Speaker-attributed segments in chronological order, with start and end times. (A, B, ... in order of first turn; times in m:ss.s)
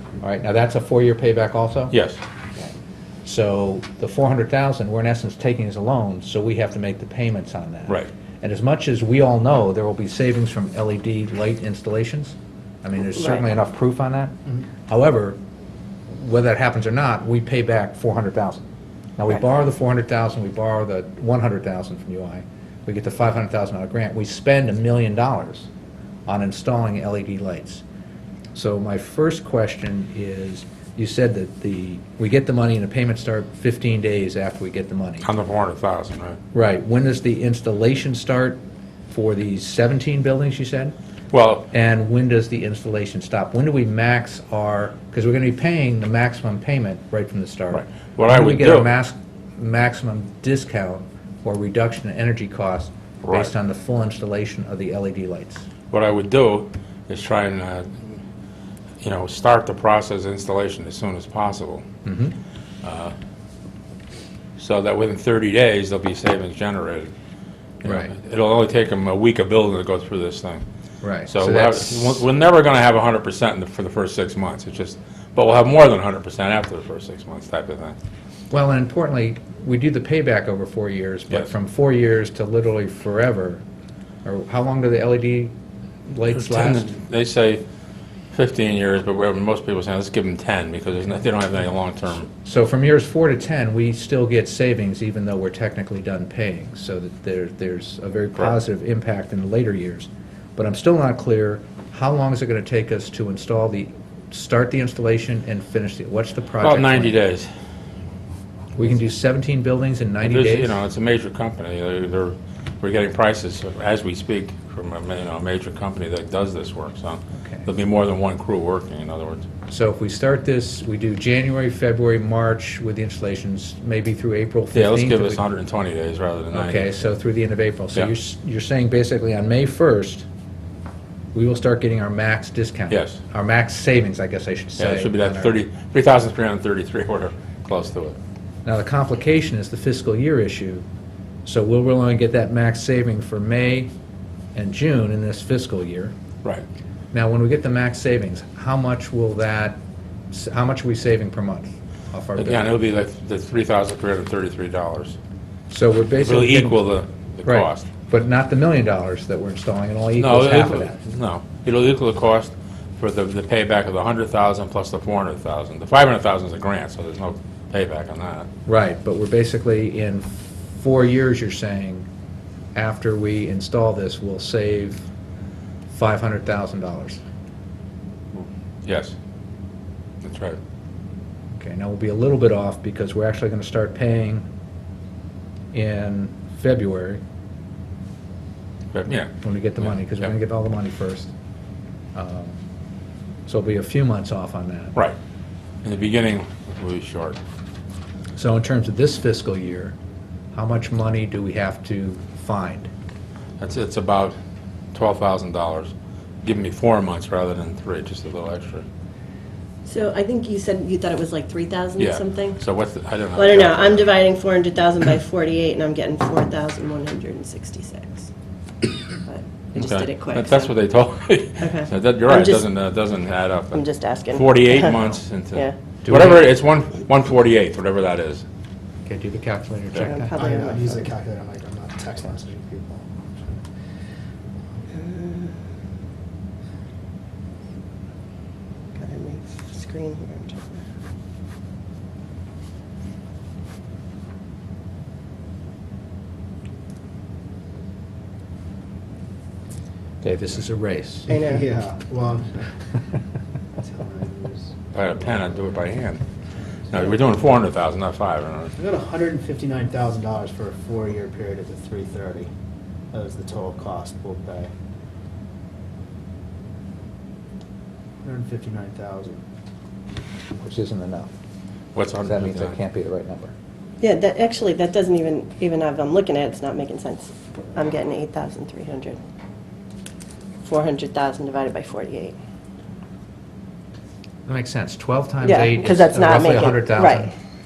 0:00.2-0:01.9 A
0:01.9-0:02.2 B
0:03.2-0:14.3 A
0:14.9-0:15.4 A
0:16.1-0:18.6 A
0:19.2-0:25.7 A
0:26.2-0:27.8 A
0:28.6-0:35.2 A
0:35.2-0:36.4 B
0:36.5-0:41.0 A
0:41.3-0:41.7 B
0:41.7-0:55.6 A
0:47.7-0:48.9 B
0:53.2-0:53.5 B
0:55.9-0:58.2 B
0:59.0-1:01.8 B
1:02.0-1:02.4 A
1:02.8-1:03.1 B
1:04.6-1:07.1 B
1:07.8-1:10.6 B
1:07.8-1:08.1 A
1:11.0-1:12.2 A
1:11.3-1:18.0 B
1:18.5-1:23.6 A
1:24.2-1:25.5 A
1:26.1-1:27.0 A
1:26.3-1:27.6 B
1:28.3-1:32.3 B
1:32.4-1:47.2 A
1:46.6-1:47.5 B
1:48.8-1:50.8 A
1:50.2-1:59.4 B
1:57.4-1:57.7 A
1:59.7-2:05.4 A
2:04.7-2:07.0 B
2:06.5-2:10.2 A
2:11.3-2:15.6 A
2:12.9-2:13.2 B
2:14.8-2:18.2 B
2:18.6-2:20.8 A
2:21.4-2:23.9 A
2:24.6-2:26.1 A
2:27.1-2:29.8 A
2:30.3-2:32.8 A
2:32.4-2:35.2 B
2:35.7-2:36.8 A
2:36.2-2:37.9 B
2:37.4-2:41.0 A
2:40.2-2:48.5 B
2:48.7-2:52.1 A
2:52.8-2:55.1 A
2:55.9-2:57.2 A
2:58.3-2:59.2 B
3:00.2-3:00.6 B
3:01.6-3:04.5 A
3:05.7-3:07.2 A
3:08.9-3:10.3 B
3:09.4-3:11.3 A
3:12.2-3:12.6 A
3:13.5-3:15.0 A
3:15.8-3:17.4 B
3:18.4-3:20.0 A
3:20.5-3:22.9 A
3:23.6-3:24.4 B
3:24.9-3:25.9 B
3:26.4-3:28.9 B
3:29.8-3:32.6 C
3:32.0-3:34.2 B
3:33.4-3:38.3 C
3:39.1-3:40.8 C
3:39.8-3:48.4 B
3:41.6-3:42.7 C
3:43.7-3:45.8 C
3:46.0-3:46.5 A
3:49.1-3:50.4 A
3:49.9-3:51.0 C
3:50.3-3:53.7 D
3:55.0-3:55.5 C
3:59.0-4:00.8 C
4:10.2-4:11.4 A
4:11.3-4:12.8 D
4:11.3-4:11.6 C
4:13.8-4:14.7 D
4:14.9-4:16.2 B
4:16.9-4:18.7 B
4:18.8-4:22.5 D
4:23.1-4:24.7 D
4:28.2-4:29.4 D
4:30.6-4:31.3 A
4:31.9-4:32.8 B
4:32.2-4:33.5 A
4:34.0-4:39.2 C
4:40.6-4:42.4 C
4:44.4-4:47.3 A
4:45.4-4:47.3 C